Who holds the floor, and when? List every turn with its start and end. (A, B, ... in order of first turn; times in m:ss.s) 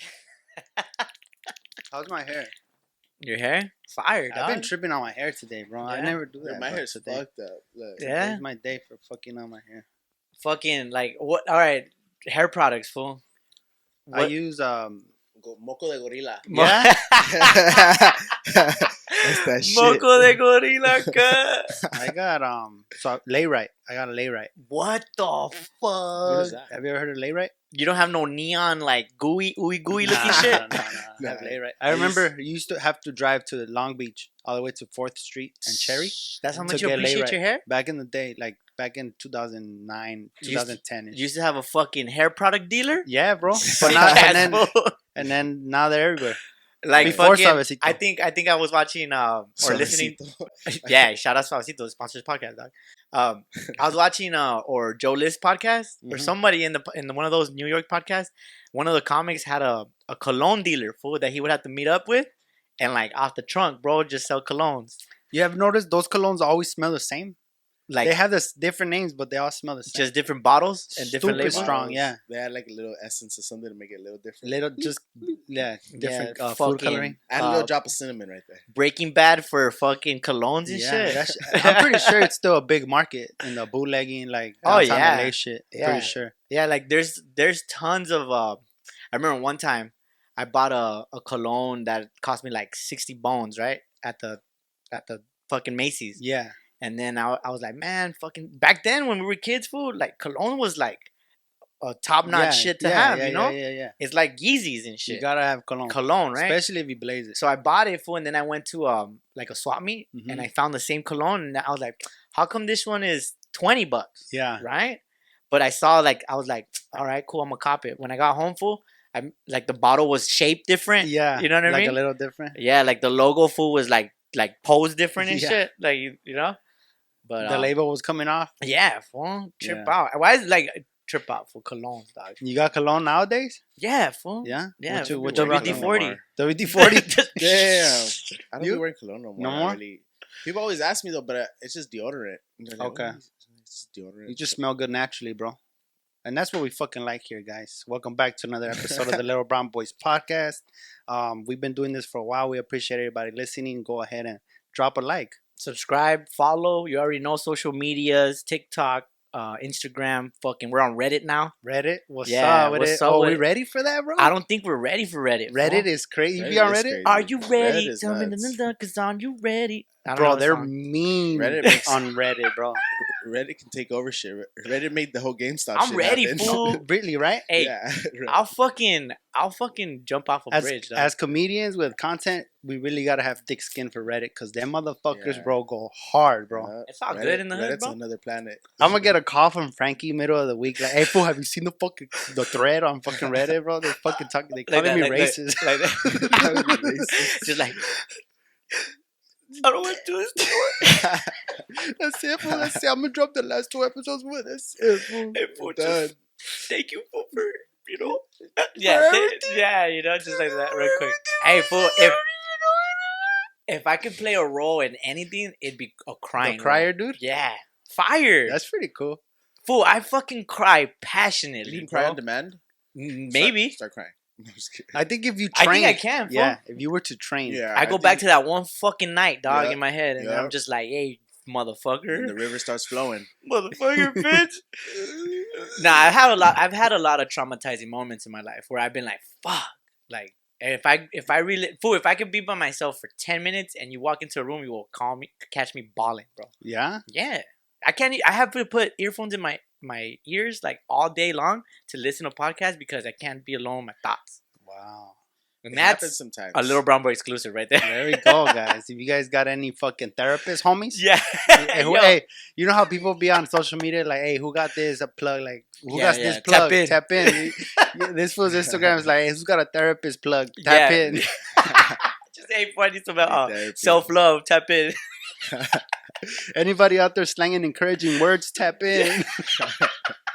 0:00.8-0:01.1 A
0:01.9-0:02.5 B
0:03.2-0:04.7 A
0:04.3-0:07.2 B
0:05.8-0:06.2 A
0:06.4-0:08.2 C
0:08.0-0:08.4 A
0:08.0-0:09.8 B
0:10.4-0:13.2 A
0:14.1-0:14.3 A
0:14.1-0:15.1 B
0:15.4-0:16.5 C
0:16.5-0:18.2 A
0:16.5-0:16.9 B
0:17.2-0:20.4 C
0:19.1-0:21.7 A
0:21.9-0:24.5 B
0:24.6-0:26.7 A
0:26.3-0:26.6 C
0:26.3-0:27.5 B
0:27.7-0:30.6 A
0:30.0-0:32.3 C
0:30.0-0:41.2 B
0:35.7-0:37.6 A
0:40.4-0:45.0 A
0:43.0-0:46.4 B
0:43.8-0:44.2 C
0:46.8-1:05.0 A
0:46.9-0:47.4 C
0:47.0-0:48.0 B
0:49.6-0:51.1 C
0:56.0-0:56.3 B
1:05.3-1:07.4 B
1:07.9-1:08.2 A
1:08.0-1:10.1 B
1:09.9-1:11.7 A
1:11.0-1:12.2 B
1:11.2-1:14.9 C
1:14.4-1:17.4 B
1:15.9-1:17.7 A
1:17.3-1:18.6 C
1:18.7-1:22.2 A
1:20.7-1:26.3 B
1:21.0-1:21.3 C
1:24.6-1:36.2 A
1:36.2-1:36.6 B
1:36.8-1:41.1 A
1:41.8-1:45.2 A
1:42.2-1:44.0 B
1:45.1-1:47.4 B
1:45.9-1:46.6 A
1:47.3-2:02.0 A
1:50.1-1:50.5 B
1:54.3-1:54.6 B
2:01.0-2:02.6 B
2:02.6-2:06.6 A
2:05.2-2:05.6 B
2:07.2-2:07.7 A
2:07.4-2:08.5 B
2:08.6-2:12.4 A
2:09.6-2:09.9 B
2:12.4-2:13.6 B
2:13.8-2:18.4 A
2:14.4-2:17.2 B
2:14.9-2:16.2 C
2:17.4-2:24.6 C
2:19.4-2:19.8 B
2:22.8-2:23.2 B
2:24.2-2:25.6 B
2:26.2-2:35.4 B
2:28.7-2:29.2 C
2:35.6-2:41.5 A
2:41.6-2:44.3 B
2:42.2-2:43.4 A
2:44.2-2:45.9 A
2:45.5-2:47.0 B
2:46.3-2:48.6 C
2:47.0-2:50.7 A
2:50.1-2:52.8 B
2:51.3-2:52.0 C
2:51.6-2:51.9 A
2:53.0-2:56.7 C
2:55.7-2:56.8 A
2:56.4-2:57.5 B
2:57.5-2:57.7 A
2:57.6-2:58.4 C
2:58.3-3:01.1 A
3:00.5-3:06.7 B
3:05.1-3:05.6 C
3:06.5-3:09.0 C
3:06.9-3:08.0 A
3:08.8-3:17.3 B
3:14.7-3:16.4 A
3:16.3-3:17.2 C
3:17.1-3:17.9 A
3:19.5-3:20.8 B
3:19.6-3:21.2 A
3:21.0-3:21.3 C
3:21.7-3:25.2 B
3:22.4-3:22.8 C
3:24.8-3:26.2 C
3:25.3-3:26.0 A
3:26.7-3:32.2 A
3:28.8-3:29.4 B
3:33.7-3:38.6 A
3:36.4-3:37.2 B
3:38.5-3:39.2 B
3:39.6-3:42.2 A
3:41.6-3:42.6 C
3:42.9-3:43.8 A
3:43.3-3:45.0 C
3:44.9-3:47.7 B
3:45.5-3:46.6 A
3:47.5-3:48.2 C
3:47.8-3:52.3 A
3:49.5-3:50.5 C
3:52.1-3:53.3 C
3:53.4-3:54.6 A
3:54.0-3:54.4 B
3:55.8-4:06.5 A
4:06.6-4:07.0 B
4:07.1-4:14.4 A
4:14.6-4:15.2 B
4:15.6-4:18.6 A
4:15.7-4:16.8 C
4:17.8-4:21.0 B
4:20.9-4:22.2 A
4:21.5-4:31.2 B
4:25.9-4:27.9 A
4:28.5-4:28.9 C
4:30.6-4:35.0 A
4:31.6-4:32.0 C
4:33.2-4:34.1 C
4:35.5-4:35.8 C
4:36.6-4:39.7 B
4:39.6-4:40.1 C